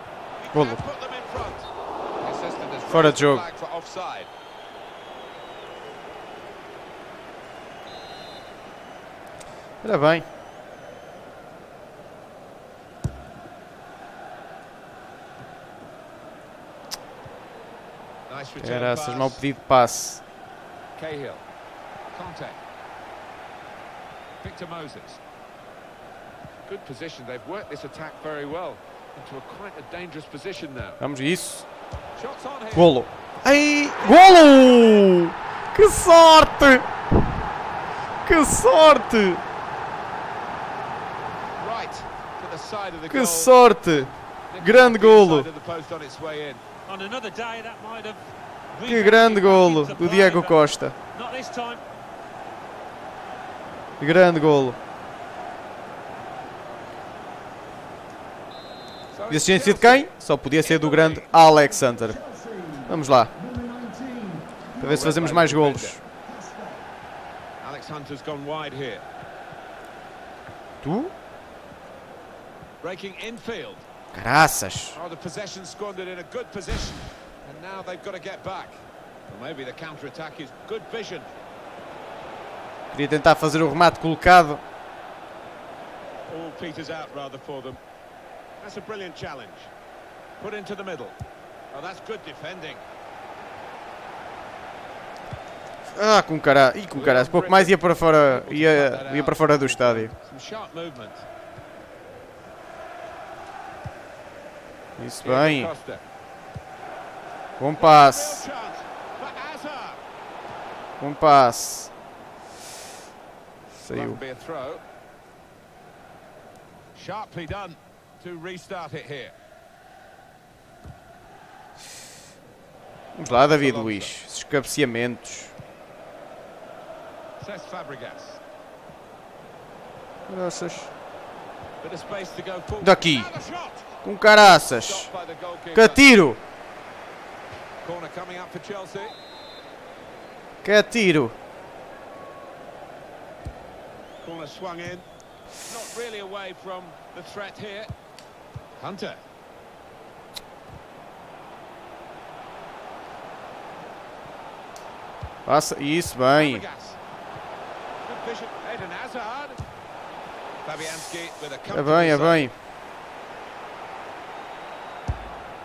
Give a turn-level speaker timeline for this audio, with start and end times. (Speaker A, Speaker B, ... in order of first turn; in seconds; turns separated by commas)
Speaker A: 0.4-1.7, Speaker B: 0.5-0.8, Speaker A: 2.2-4.3, Speaker B: 2.9-3.5, Speaker B: 9.8-10.3, Speaker A: 18.3-19.4, Speaker B: 18.6-20.2, Speaker A: 21.0-21.4, Speaker A: 22.1-22.6, Speaker A: 24.4-25.2, Speaker A: 26.7-31.0, Speaker B: 31.0-31.7, Speaker A: 32.2-33.0, Speaker B: 32.7-37.3, Speaker A: 34.1-35.0, Speaker B: 38.2-39.4, Speaker A: 41.6-43.5, Speaker B: 43.1-45.5, Speaker A: 44.5-46.6, Speaker C: 46.9-51.8, Speaker B: 48.9-51.0, Speaker B: 54.0-54.8, Speaker A: 59.1-61.3, Speaker B: 59.3-62.2, Speaker D: 61.7-65.1, Speaker B: 62.9-63.3, Speaker B: 64.8-66.0, Speaker A: 64.8-66.0, Speaker D: 66.2-66.9, Speaker A: 67.6-69.0, Speaker B: 70.8-71.1, Speaker A: 72.8-73.9, Speaker B: 74.1-75.0, Speaker A: 74.9-81.3, Speaker B: 82.9-84.6, Speaker A: 86.3-87.8, Speaker A: 88.6-89.7, Speaker A: 90.4-91.2, Speaker A: 91.7-92.8, Speaker B: 95.9-100.1, Speaker A: 96.9-101.3, Speaker B: 105.0-105.7, Speaker A: 105.2-106.0, Speaker B: 107.6-108.5, Speaker A: 107.8-110.0, Speaker B: 111.0-111.9, Speaker B: 113.8-114.2, Speaker A: 113.9-114.8, Speaker A: 117.0-119.3, Speaker B: 123.2-125.5, Speaker A: 123.2-124.1, Speaker A: 127.4-128.4, Speaker B: 130.3-130.9, Speaker A: 131.8-136.0, Speaker B: 132.8-133.3, Speaker B: 134.0-135.1, Speaker B: 135.7-136.4, Speaker A: 137.8-139.2, Speaker B: 140.6-141.4, Speaker A: 144.2-145.1, Speaker A: 145.7-147.9, Speaker A: 148.8-149.2, Speaker B: 155.5-156.7, Speaker A: 156.3-157.0, Speaker A: 158.0-159.6, Speaker A: 160.6-162.5, Speaker B: 161.7-162.5